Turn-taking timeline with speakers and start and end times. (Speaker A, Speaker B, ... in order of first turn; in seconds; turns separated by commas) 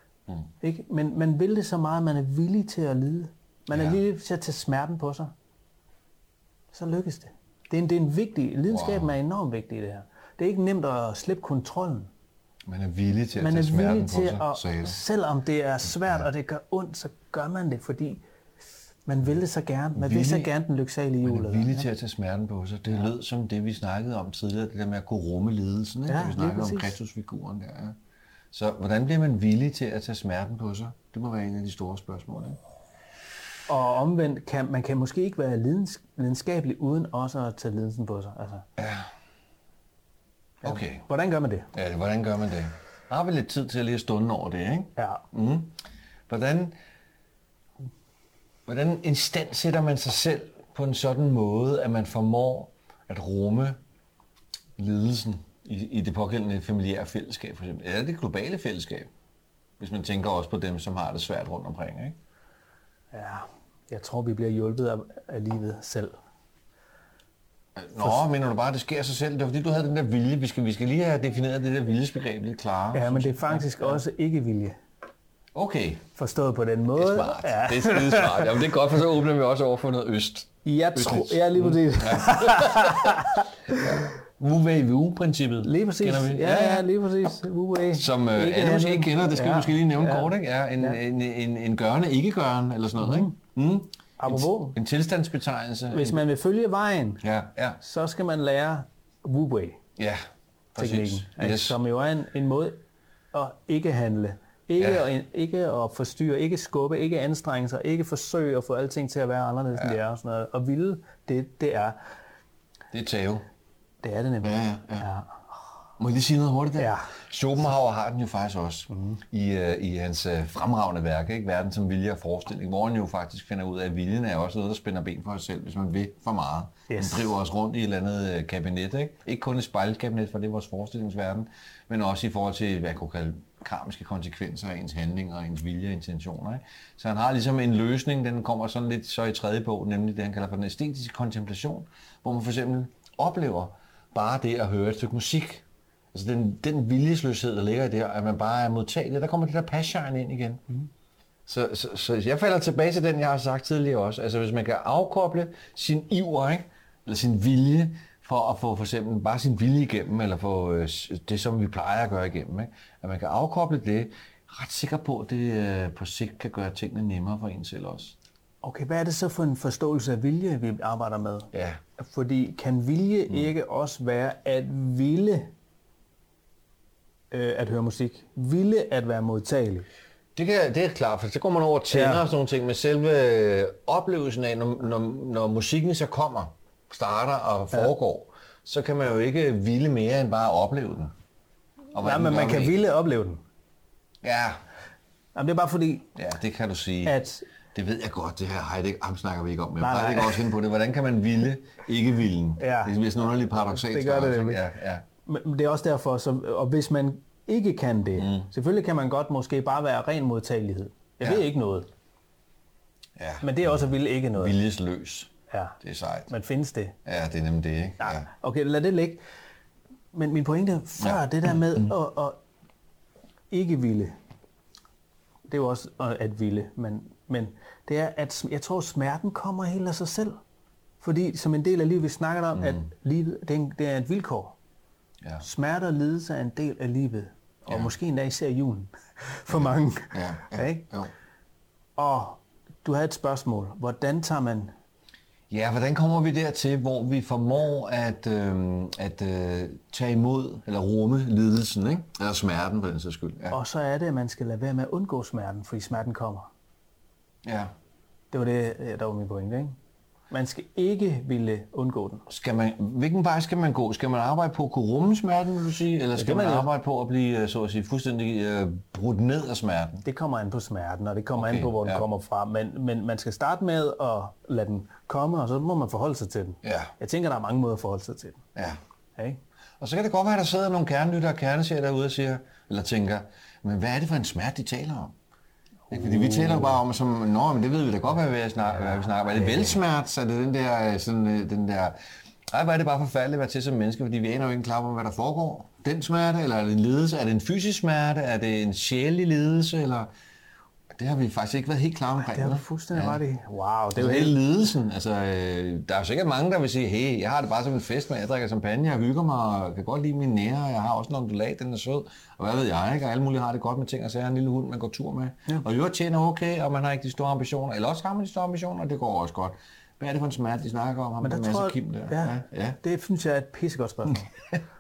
Speaker A: 0.6-5.3, Speaker B: 3.7-4.0, Speaker A: 6.7-12.1, Speaker B: 8.7-9.1, Speaker B: 12.7-15.0, Speaker A: 13.4-18.2, Speaker A: 19.1-21.9, Speaker B: 20.0-20.5, Speaker B: 21.2-28.0, Speaker A: 26.1-26.9, Speaker B: 28.5-32.6, Speaker A: 33.7-38.7, Speaker B: 38.8-39.0, Speaker A: 40.6-41.7, Speaker B: 40.6-41.0, Speaker B: 41.7-45.8, Speaker A: 45.0-45.2, Speaker B: 46.3-46.8, Speaker B: 48.7-53.8, Speaker B: 54.8-59.1, Speaker B: 59.8-62.2, Speaker A: 63.1-66.2, Speaker B: 67.8-74.0, Speaker A: 72.9-74.8, Speaker B: 75.5-76.0, Speaker A: 76.2-78.6, Speaker B: 77.0-86.9, Speaker A: 80.6-83.8, Speaker A: 85.6-91.0, Speaker B: 87.9-96.2, Speaker A: 93.0-93.3, Speaker A: 94.2-94.8, Speaker A: 95.9-97.2, Speaker B: 97.2-97.8, Speaker A: 97.8-99.8, Speaker B: 100.8-101.8, Speaker A: 100.8-102.8, Speaker A: 103.3-112.0, Speaker B: 104.8-105.1, Speaker B: 112.9-113.5, Speaker A: 114.0-115.4, Speaker B: 114.4-115.1, Speaker B: 116.0-150.6, Speaker A: 116.8-117.1, Speaker A: 118.9-119.2, Speaker A: 126.9-127.3, Speaker B: 151.5-168.2, Speaker A: 168.6-175.5, Speaker B: 171.5-171.8, Speaker A: 177.3-179.9, Speaker B: 180.3-191.1, Speaker A: 181.9-182.3, Speaker B: 191.9-192.8, Speaker A: 192.0-193.4, Speaker B: 194.2-194.6, Speaker A: 195.3-196.1, Speaker B: 196.2-197.2, Speaker A: 197.1-197.5, Speaker B: 197.7-205.0, Speaker A: 199.8-200.5, Speaker A: 202.6-203.0, Speaker A: 203.6-204.7, Speaker A: 205.2-211.9, Speaker B: 208.2-208.5, Speaker B: 213.2-213.7, Speaker A: 213.4-214.6, Speaker B: 214.4-215.3, Speaker A: 215.5-215.8, Speaker B: 215.8-216.3, Speaker A: 216.3-216.9, Speaker B: 217.1-218.3, Speaker A: 218.0-219.2, Speaker A: 220.1-222.4, Speaker B: 221.0-221.9, Speaker A: 223.5-224.1, Speaker A: 225.5-230.4, Speaker A: 231.0-234.6, Speaker B: 232.6-232.8, Speaker A: 235.4-240.9, Speaker B: 240.1-241.1, Speaker A: 242.0-244.7, Speaker B: 245.5-253.6, Speaker A: 253.5-256.5, Speaker B: 257.4-257.7, Speaker A: 258.3-259.8, Speaker A: 260.3-262.2, Speaker B: 262.3-270.1, Speaker A: 266.1-266.7, Speaker A: 270.1-278.4, Speaker B: 271.4-272.0, Speaker B: 276.6-276.9, Speaker B: 279.8-285.1, Speaker A: 285.9-286.8, Speaker B: 285.9-292.0, Speaker B: 292.5-300.1, Speaker B: 301.0-303.2, Speaker A: 302.2-304.4, Speaker B: 303.9-322.8, Speaker A: 321.2-324.3